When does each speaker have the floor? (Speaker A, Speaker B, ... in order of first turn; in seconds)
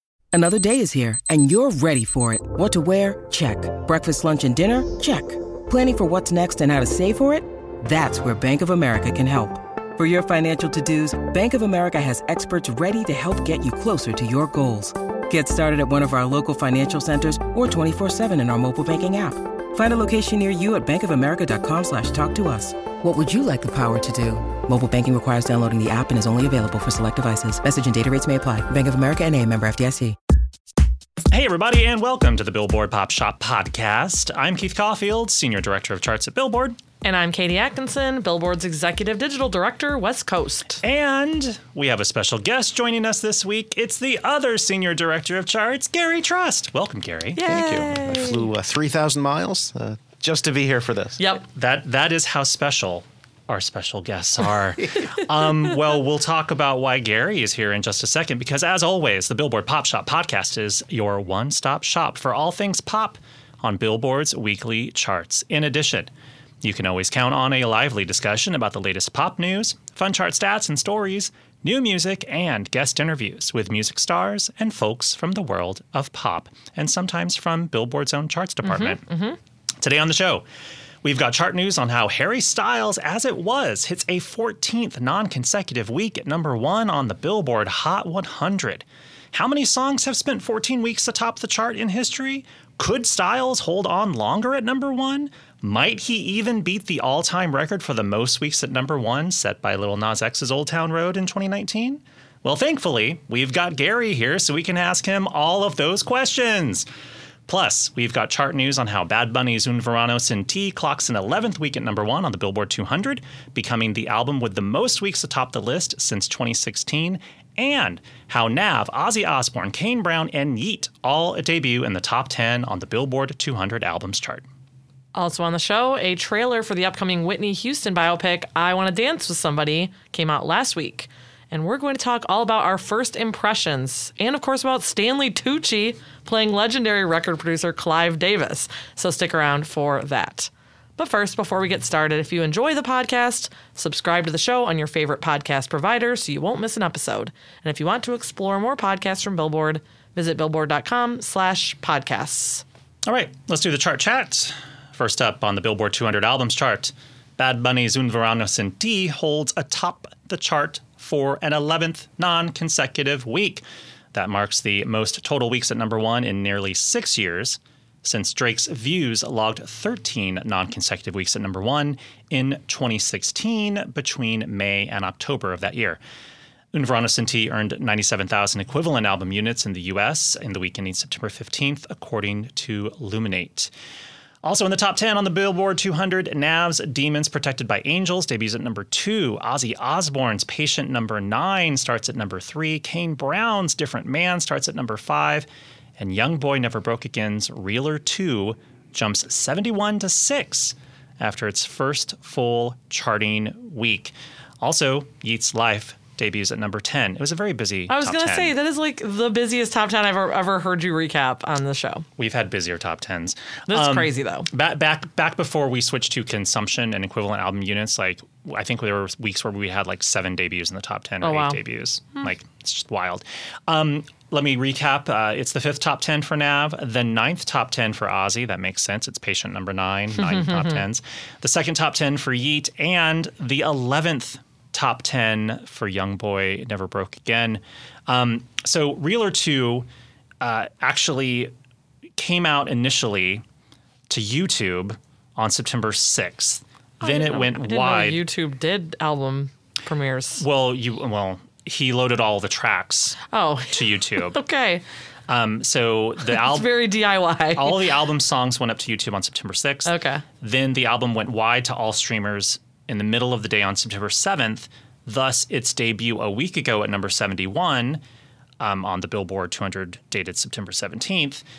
Speaker A: 0.3-30.2
Speaker B: 31.3-36.8, 40.8-47.4, 51.5-66.1, 66.6-79.0, 79.8-80.4, 81.0-106.9, 107.5-124.4, 153.1-163.6, 164.1-176.0, 176.7-183.7, 184.4-195.5, 196.0-208.6, 212.2-239.9, 240.4-241.5, 242.2-243.4, 244.1-248.2, 250.4-253.2, 253.7-254.4, 255.3-256.9, 257.6-259.9, 260.4-268.0, 268.6-271.4
Speaker C: 37.0-40.8, 47.4-48.5, 51.2-51.4, 78.6-79.4, 125.2-152.6, 207.9-212.1, 213.7-214.5, 221.2-221.6, 230.2-230.8, 247.0-250.4, 253.3-254.8, 256.3-257.9, 259.9-260.2
Speaker D: 47.4-51.2